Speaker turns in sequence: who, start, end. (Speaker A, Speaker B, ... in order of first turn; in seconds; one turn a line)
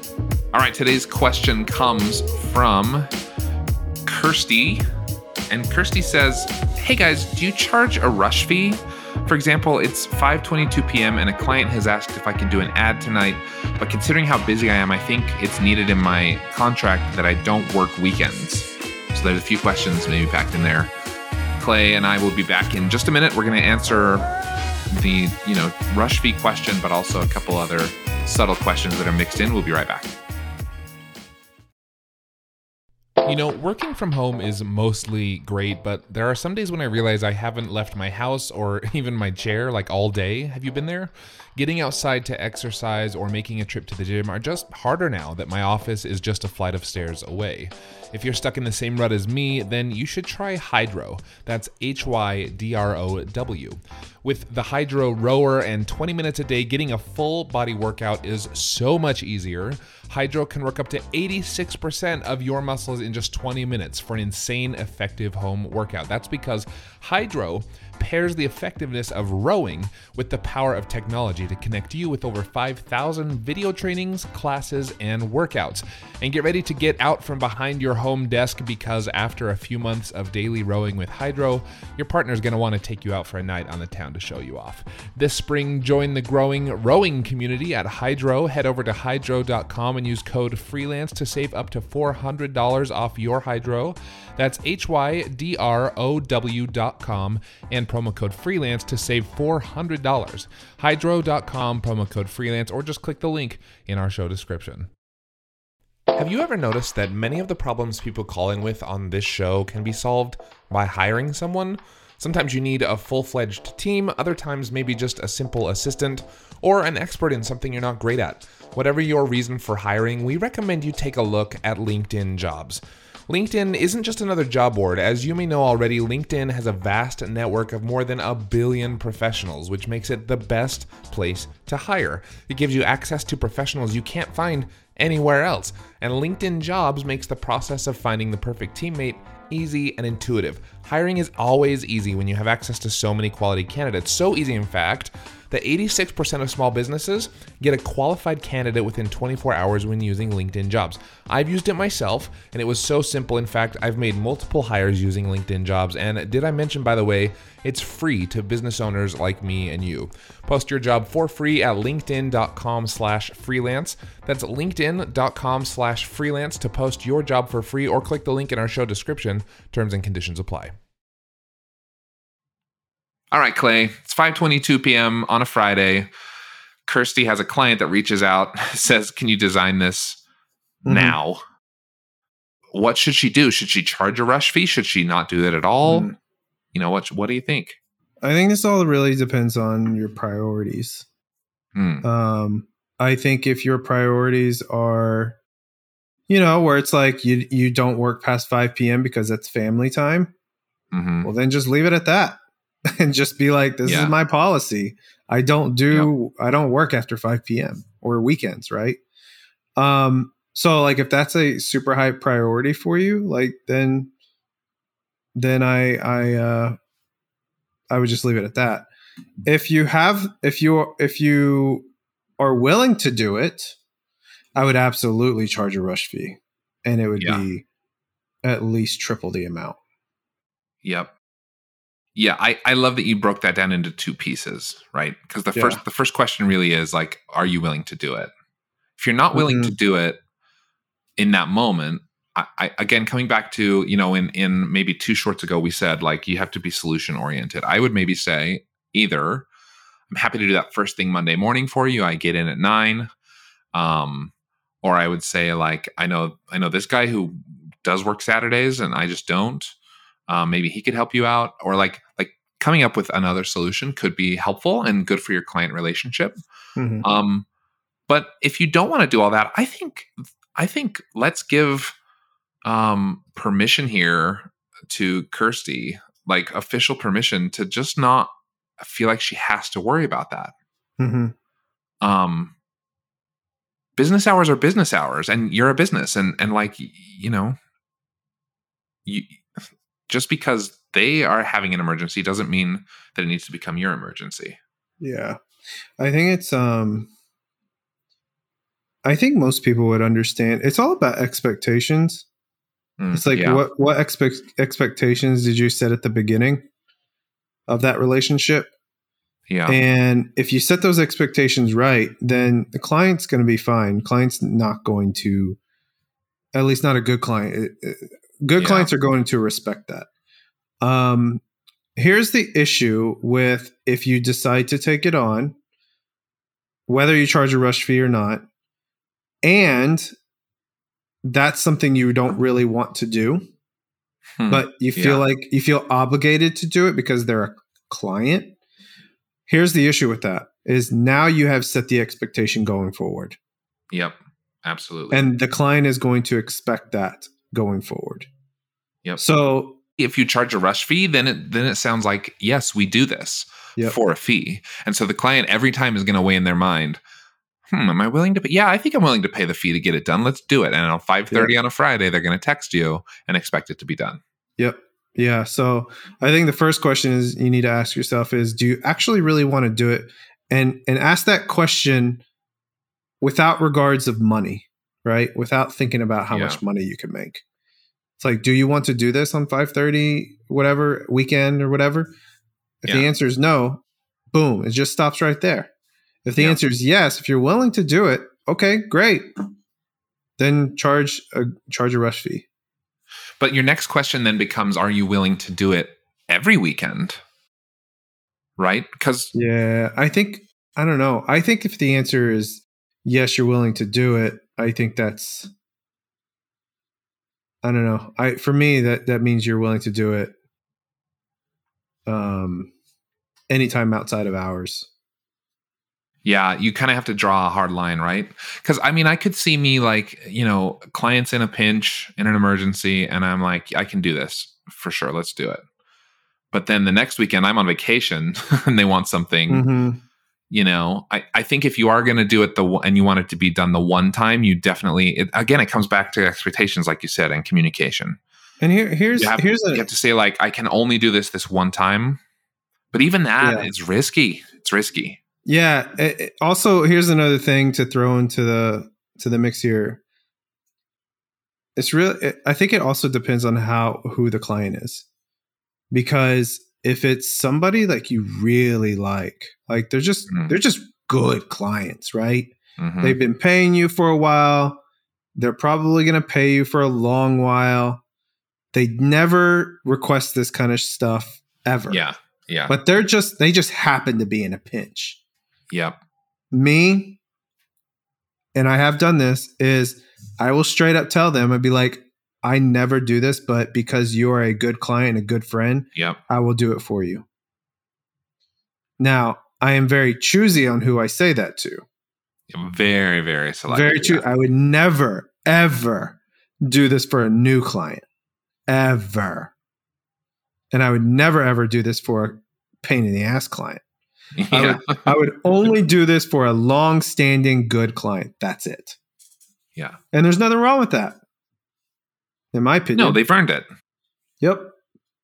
Speaker A: 0.5-3.1
Speaker A: 4.0-4.8
Speaker A: 5.5-20.9
Speaker A: 21.6-24.2
Speaker A: 24.9-30.1
Speaker A: 33.2-104.9
Speaker A: 106.2-170.7
Speaker A: 173.3-176.1
Speaker A: 176.8-180.2
Speaker B: 180.8-181.2
Speaker A: 180.8-181.4
Speaker A: 182.7-186.1
Speaker B: 185.8-186.1
Speaker A: 186.7-187.8
Speaker B: 188.2-191.1
Speaker A: 191.8-192.0
Speaker B: 192.0-195.4
Speaker B: 196.3-200.3
Speaker A: 200.9-201.3
Speaker B: 201.2-202.4
Speaker B: 202.9-209.0
Speaker A: 203.8-204.1
Speaker B: 209.8-214.1
Speaker B: 215.3-216.8
Speaker B: 217.9-218.9
Speaker B: 219.4-221.9
Speaker B: 222.4-223.8
Speaker B: 224.6-227.6
Speaker A: 227.2-227.4
Speaker B: 228.4-229.8
Speaker A: 230.8-231.1
Speaker A: 232.1-238.3
Speaker B: 235.5-235.8
Speaker A: 239.0-240.2
Speaker B: 239.3-239.7
Speaker A: 241.2-249.5
Speaker A: 250.1-253.1
Speaker A: 253.7-254.3
Speaker A: 254.8-259.7
Speaker A: 260.3-266.4
Speaker B: 266.8-267.1
Speaker A: 267.0-267.4
Speaker A: 268.1-271.9
Speaker A: 272.6-280.5
Speaker B: 281.0-281.3
Speaker A: 282.0-282.5
Speaker A: 284.0-287.6
Speaker A: 289.1-289.4
Speaker A: 290.1-294.6
Speaker B: 295.0-295.4
Speaker B: 296.0-297.1
Speaker B: 299.0-302.2
Speaker A: 303.0-303.6
Speaker B: 303.1-306.6
Speaker B: 307.7-308.7
Speaker A: 309.5-309.8
Speaker B: 309.7-315.6
Speaker B: 316.5-320.1
Speaker A: 318.6-318.9
Speaker B: 320.8-321.4
Speaker B: 321.9-325.6
Speaker B: 326.9-328.4
Speaker B: 329.4-330.1
Speaker B: 331.2-333.4
Speaker A: 334.4-335.2
Speaker B: 334.5-338.6
Speaker B: 339.5-343.4
Speaker A: 343.9-345.3
Speaker B: 345.1-348.3
Speaker B: 349.2-349.8
Speaker A: 350.0-357.0
Speaker A: 357.7-364.2
Speaker B: 364.6-372.2
Speaker B: 373.2-377.4
Speaker A: 376.3-376.6
Speaker B: 378.2-382.1
Speaker B: 382.8-385.7
Speaker B: 386.2-389.3
Speaker B: 390.4-392.4
Speaker A: 393.4-397.2
Speaker A: 398.6-399.3
Speaker B: 399.3-405.5
Speaker B: 407.6-410.3
Speaker B: 412.1-412.7
Speaker B: 413.5-414.9
Speaker A: 416.2-425.6
Speaker A: 426.5-429.6
Speaker B: 429.5-430.0
Speaker A: 430.5-438.2
Speaker B: 438.6-439.9
Speaker A: 439.1-442.2
Speaker A: 442.9-445.2
Speaker B: 443.4-443.7
Speaker B: 445.4-450.0
Speaker B: 451.8-455.1
Speaker B: 455.9-464.8
Speaker A: 460.3-460.5
Speaker A: 462.8-463.2
Speaker B: 465.4-468.0
Speaker B: 468.7-472.0
Speaker A: 471.9-472.7
Speaker B: 472.7-475.2
Speaker A: 475.7-476.0
Speaker B: 476.5-477.2
Speaker B: 478.5-487.2
Speaker B: 489.0-491.8
Speaker A: 492.5-494.2
Speaker B: 493.7-498.0
Speaker B: 498.7-499.5
Speaker B: 500.7-503.8
Speaker A: 504.4-505.1
Speaker B: 504.5-509.0
Speaker B: 510.1-511.2
Speaker B: 512.5-513.2
Speaker A: 512.9-513.7
Speaker B: 514.4-514.7